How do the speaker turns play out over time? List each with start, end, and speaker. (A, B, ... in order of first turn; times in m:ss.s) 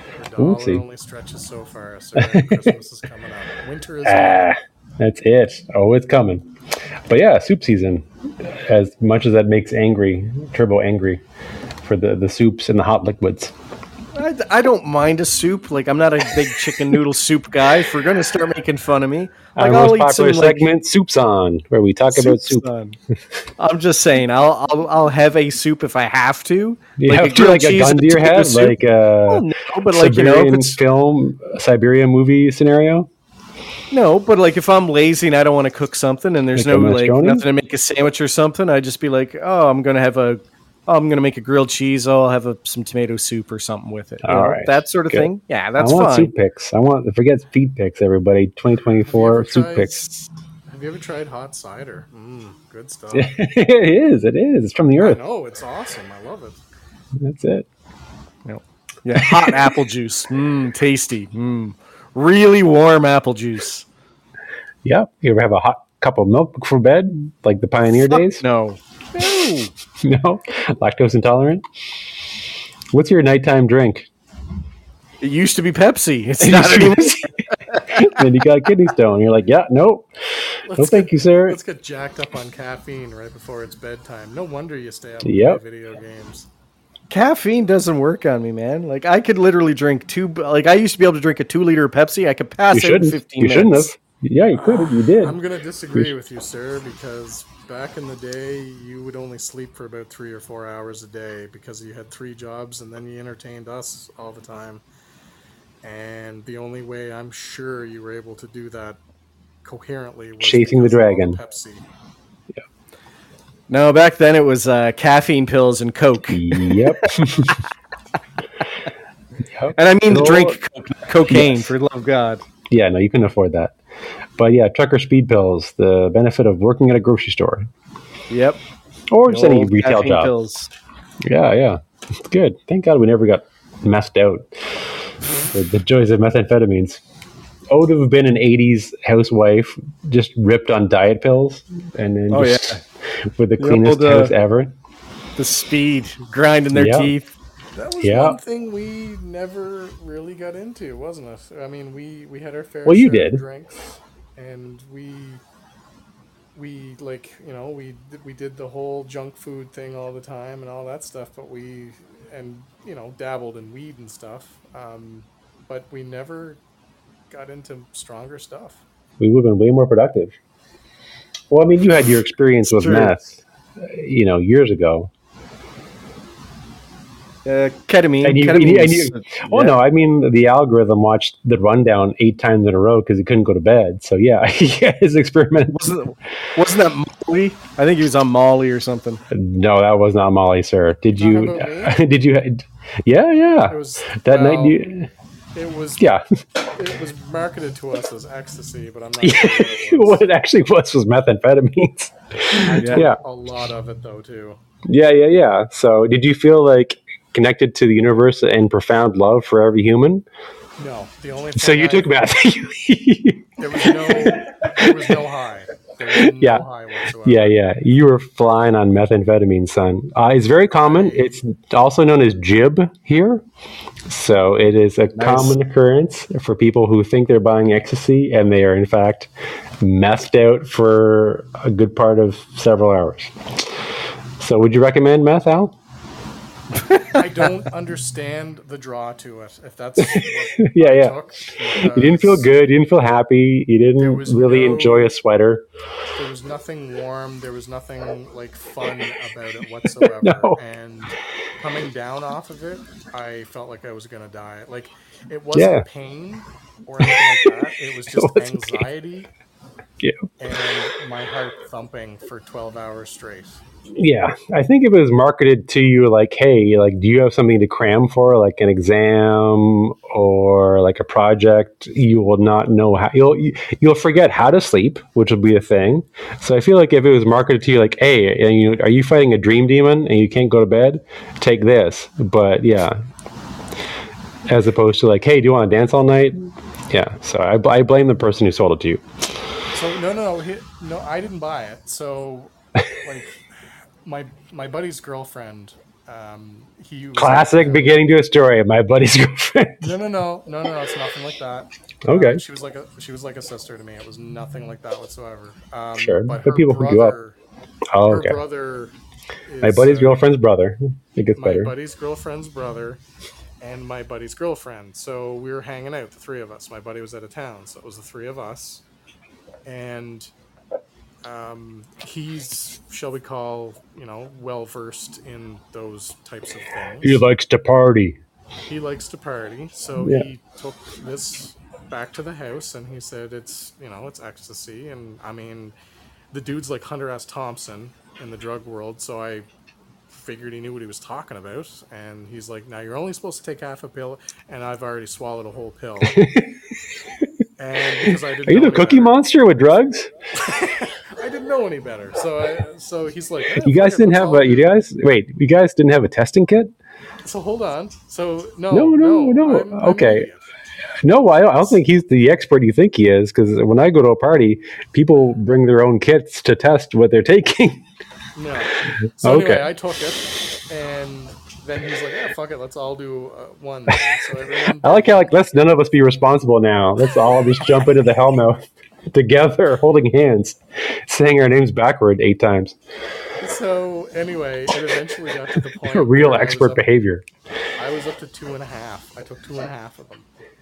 0:00.2-0:04.5 A
0:00.4-0:00.8 B
0:02.2-0:02.7 B
0:04.0-0:06.5 B
0:07.1-0:11.2 B
0:11.8-0:13.5 B
0:14.1-0:20.7 C
0:19.6-0:22.6 B
0:22.1-0:23.0 C
0:23.6-0:28.8 C
0:27.0-0:33.1 B
0:29.3-0:30.8 C
0:33.9-0:46.3 C
0:36.5-0:37.4 B
0:44.2-0:50.0 B
0:49.0-0:50.0 A
0:50.7-0:53.3 A
0:53.1-0:55.2 B
0:55.0-0:56.6 A
0:57.2-0:57.7 B
0:58.4-1:03.8 C
0:59.2-0:59.7 B
1:04.8-1:08.4 B
1:08.3-1:09.7 C
1:10.0-1:11.6 B
1:12.9-1:14.1 B
1:15.2-1:18.1 C
1:16.4-1:21.6 B
1:20.7-1:26.5 A
1:25.2-1:25.6 B
1:27.1-1:33.9 C
1:32.7-1:35.4 B
1:34.5-1:44.8 A
1:45.8-1:49.0 A
1:49.6-1:51.8 A
1:50.4-1:51.4 B
1:53.7-1:57.4 C
1:56.3-1:57.5 B
1:59.5-2:00.6 B
1:59.7-2:02.4 C
2:01.3-2:01.7 B
2:02.7-2:03.8 B
2:04.4-2:07.7 B
2:08.3-2:08.6 C
2:09.1-2:10.3 B
2:09.3-2:10.7 C
2:11.2-2:14.9 B
2:15.5-2:17.0 B
2:17.7-2:24.7 B
2:22.3-2:22.8 C
2:23.6-2:24.3 C
2:25.4-2:27.3 C
2:26.7-2:27.1 B
2:27.8-2:35.4 A
2:28.0-2:28.4 B
2:32.8-2:33.4 B
2:36.5-2:46.6 A
2:47.3-2:48.8 A
2:49.2-2:50.4 B
2:51.5-2:55.1 B
2:52.8-2:53.2 C
2:57.4-2:59.8 C
2:58.2-3:05.8 B
3:05.7-3:09.2 C
3:09.3-3:15.1 B
3:11.2-3:12.0 A
3:13.7-3:14.8 A
3:15.5-3:16.1 A
3:16.7-3:20.2 A
3:19.2-3:23.2 B
3:22.5-3:24.6 A
3:22.8-3:23.1 C
3:24.9-3:30.2 B
3:30.8-3:32.1 A
3:31.6-3:35.2 B
3:33.6-3:37.5 A
3:36.1-3:36.6 B
3:37.2-3:43.4 B
3:40.7-3:41.3 A
3:44.1-3:53.6 B
3:45.2-3:45.5 C
3:54.4-3:55.7 B
3:56.8-3:57.1 C
3:57.1-4:02.5 A
4:00.0-4:05.6 B
4:04.0-4:05.1 A
4:06.1-4:19.3 A
4:10.0-4:10.6 B
4:15.5-4:15.8 B
4:17.0-4:17.5 B
4:18.1-4:18.8 B
4:20.0-4:20.3 B
4:20.4-4:23.6 A
4:23.9-4:43.0 B
4:44.5-4:49.0 B
4:49.7-4:52.5 A
4:53.0-4:53.4 A
4:54.0-4:57.9 A
4:57.2-4:59.9 B
4:59.8-5:07.4 A
5:02.0-5:02.4 B
5:06.0-5:07.2 B
5:07.9-5:08.4 B
5:08.1-5:08.9 A
5:09.5-5:10.2 A
5:09.6-5:11.7 B
5:11.4-5:13.0 A
5:13.6-5:18.8 A
5:19.6-5:20.3 A
5:21.2-5:27.2 A
5:27.0-5:28.2 B
5:28.7-5:35.7 A
5:30.0-5:30.3 B
5:36.3-5:39.4 A
5:40.1-5:46.2 A
5:46.0-5:46.5 B
5:47.6-5:49.1 A
5:48.0-5:50.1 B
5:50.4-5:54.8 A
5:53.6-5:56.7 B
5:57.2-6:00.4 A
5:58.7-6:00.3 B
6:01.0-6:07.8 B
6:08.3-6:15.4 A
6:09.2-6:09.7 B
6:14.8-6:22.8 B
6:23.4-6:26.8 A
6:25.7-6:27.2 B
6:27.8-6:30.3 A